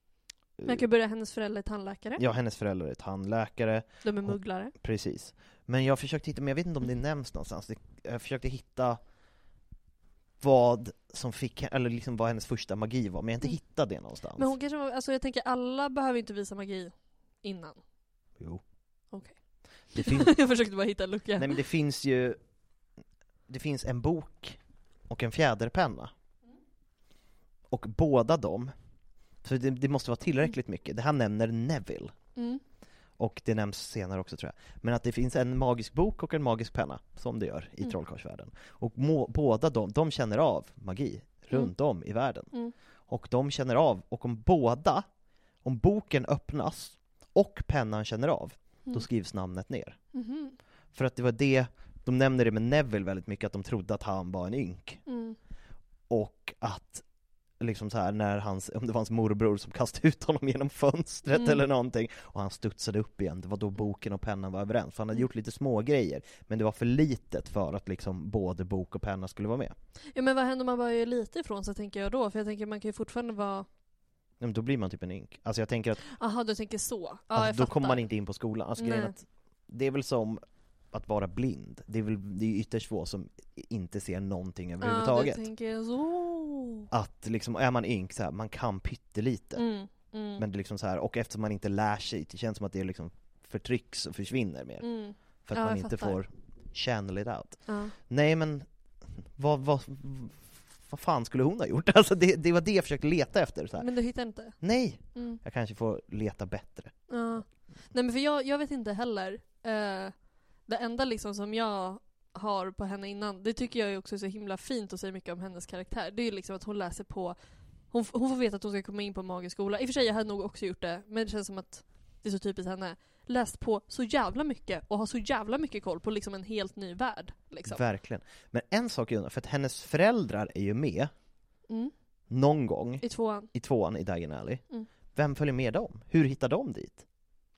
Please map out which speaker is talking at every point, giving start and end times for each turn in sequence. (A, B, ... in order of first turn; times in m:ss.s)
0:00.6-0:02.2 A
0:02.2-0:09.0 B
0:04.0-0:04.7 A
0:10.4-0:14.5 B
0:14.4-0:17.8 A
0:19.9-0:20.4 B
0:19.9-0:21.6 A
0:21.4-0:22.4 B
0:23.5-0:26.1 B
0:27.7-0:28.7 B
0:29.4-0:32.1 B
0:32.4-0:32.6 A
0:33.2-0:42.5 B
0:43.1-0:45.0 B
0:45.6-0:50.0 B
0:50.1-0:50.6 A
0:50.9-0:55.0 B
0:55.0-0:55.4 A
0:56.1-0:57.0 B
0:57.6-1:09.7 B
1:01.3-1:01.6 A
1:10.1-1:13.7 A
1:14.4-1:16.0 B
1:16.1-1:18.1 A
1:17.3-1:25.5 B
1:18.8-1:19.2 A
1:24.8-1:26.9 A
1:26.9-1:29.6 B
1:29.6-1:30.4 A
1:30.4-1:34.9 B
1:34.8-1:36.2 A
1:35.4-1:38.7 B
1:37.7-1:37.9 A
1:39.4-1:43.9 B
1:43.8-1:44.6 A
1:44.6-1:46.9 B
1:45.1-1:45.4 A
1:47.1-1:50.1 A
1:50.6-1:57.4 A
1:57.9-2:07.8 A
2:07.6-2:11.1 B
2:12.3-2:14.6 B
2:13.0-2:13.5 A
2:15.1-2:17.0 B